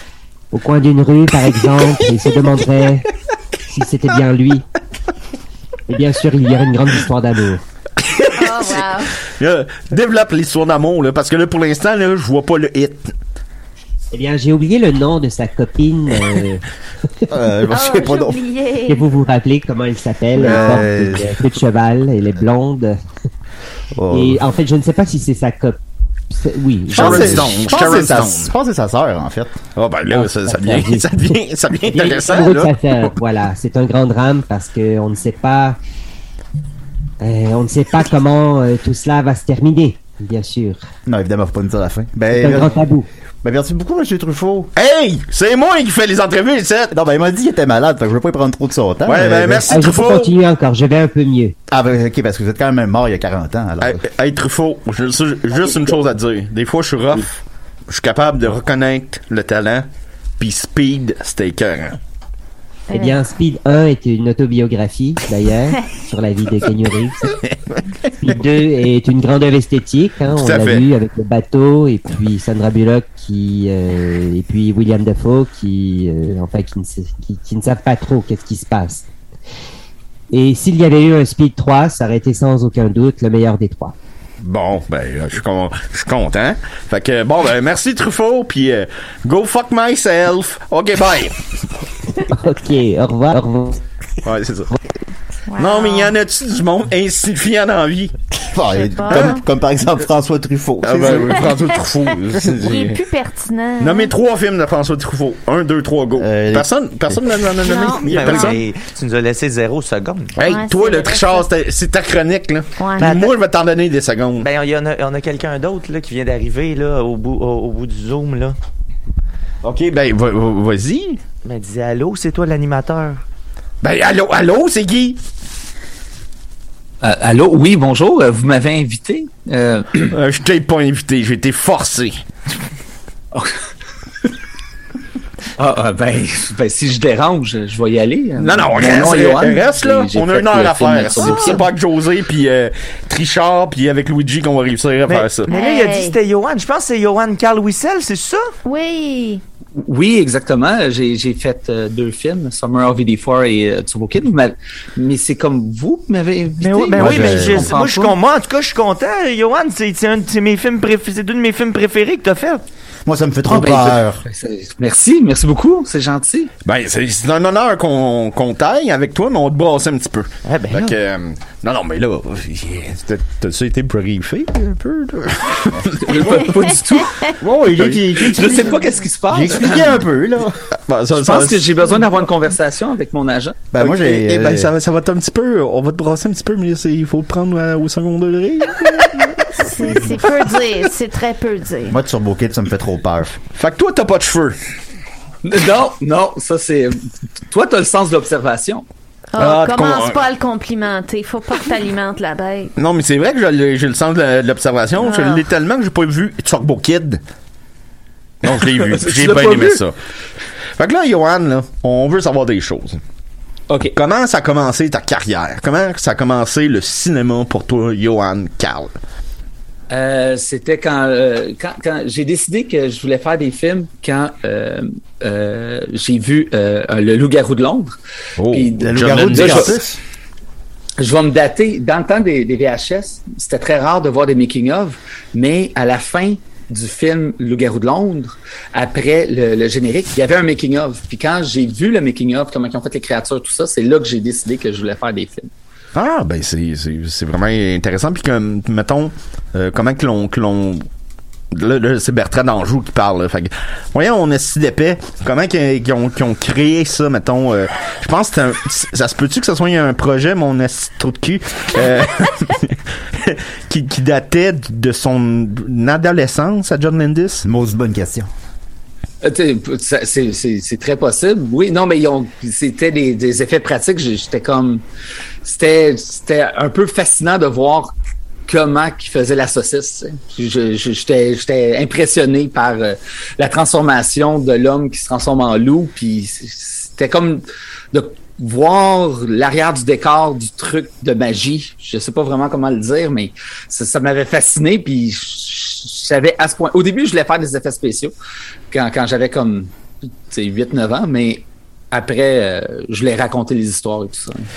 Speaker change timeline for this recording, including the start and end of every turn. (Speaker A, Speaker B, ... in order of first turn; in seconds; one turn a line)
Speaker A: 0.5-3.1
Speaker A: 3.7-4.6
Speaker A: 5.9-7.6
Speaker B: 8.0-13.1
Speaker C: 8.3-9.1
Speaker A: 14.1-16.6
Speaker D: 17.3-18.4
Speaker C: 17.7-19.0
Speaker A: 18.9-23.0
Speaker D: 20.4-21.3
Speaker D: 23.9-24.4
Speaker A: 24.1-25.8
Speaker A: 26.3-27.7
Speaker B: 26.9-28.5
Speaker D: 26.9-29.6
Speaker B: 29.7-33.1
Speaker A: 30.1-35.8
Speaker A: 37.2-40.8
Speaker D: 41.0-42.8
Speaker A: 42.3-43.1
Speaker D: 43.4-44.7
Speaker B: 44.7-46.9
Speaker D: 46.9-49.8
Speaker B: 49.0-50.3
Speaker A: 49.7-51.5
Speaker D: 51.7-54.0
Speaker B: 53.8-59.9
Speaker B: 60.4-62.0
Speaker C: 62.9-63.2
Speaker A: 62.9-67.4
Speaker A: 68.2-79.1
Speaker B: 70.4-70.9
Speaker A: 80.3-83.9
Speaker B: 84.4-91.4
Speaker A: 92.3-93.8
Speaker B: 94.2-94.7
Speaker C: 95.5-96.1
Speaker B: 95.6-98.2
Speaker D: 98.5-101.5
Speaker C: 98.7-99.4
Speaker B: 99.1-99.3
Speaker B: 100.8-103.0
Speaker C: 102.6-104.1
Speaker B: 103.8-108.6
Speaker D: 106.2-107.2
Speaker C: 107.6-108.6
Speaker E: 108.0-110.3
Speaker B: 110.4-114.5
Speaker C: 110.4-111.4
Speaker C: 112.8-113.2
Speaker E: 113.0-113.3
Speaker E: 114.4-118.6
Speaker B: 119.6-121.2
Speaker E: 121.4-123.2
Speaker B: 123.8-125.2
Speaker F: 127.0-130.1
Speaker B: 130.1-132.2
Speaker F: 135.6-141.7
Speaker B: 138.4-145.5
Speaker E: 145.1-148.5
Speaker C: 145.5-146.2
Speaker C: 148.6-149.4
Speaker F: 149.8-158.2
Speaker E: 156.6-162.6
Speaker D: 156.9-157.8
Speaker D: 163.1-164.2
Speaker F: 163.5-166.5
Speaker B: 166.6-176.6
Speaker E: 170.4-170.9
Speaker F: 176.0-177.2
Speaker D: 177.4-178.7
Speaker B: 177.8-178.6
Speaker F: 178.2-180.0
Speaker D: 179.3-180.6
Speaker B: 180.9-181.7
Speaker F: 181.1-183.7
Speaker D: 183.7-184.7
Speaker B: 183.8-190.2
Speaker C: 189.6-192.0
Speaker D: 191.9-193.4
Speaker B: 193.5-194.6
Speaker F: 195.4-198.8
Speaker C: 199.3-202.7
Speaker B: 199.4-200.2
Speaker B: 202.8-207.2
Speaker C: 205.0-205.4
Speaker B: 208.4-209.9
Speaker F: 208.6-209.8
Speaker B: 210.8-213.0
Speaker B: 213.9-218.9
Speaker F: 219.9-227.9
Speaker B: 228.4-229.8
Speaker F: 228.5-229.8
Speaker D: 228.8-230.0
Speaker F: 231.0-245.5
Speaker B: 245.9-250.9
Speaker B: 251.5-267.4
Speaker D: 267.4-268.3
Speaker F: 269.2-274.8
Speaker F: 275.4-277.9
Speaker F: 278.5-298.1
Speaker F: 298.7-299.7
Speaker F: 300.2-304.5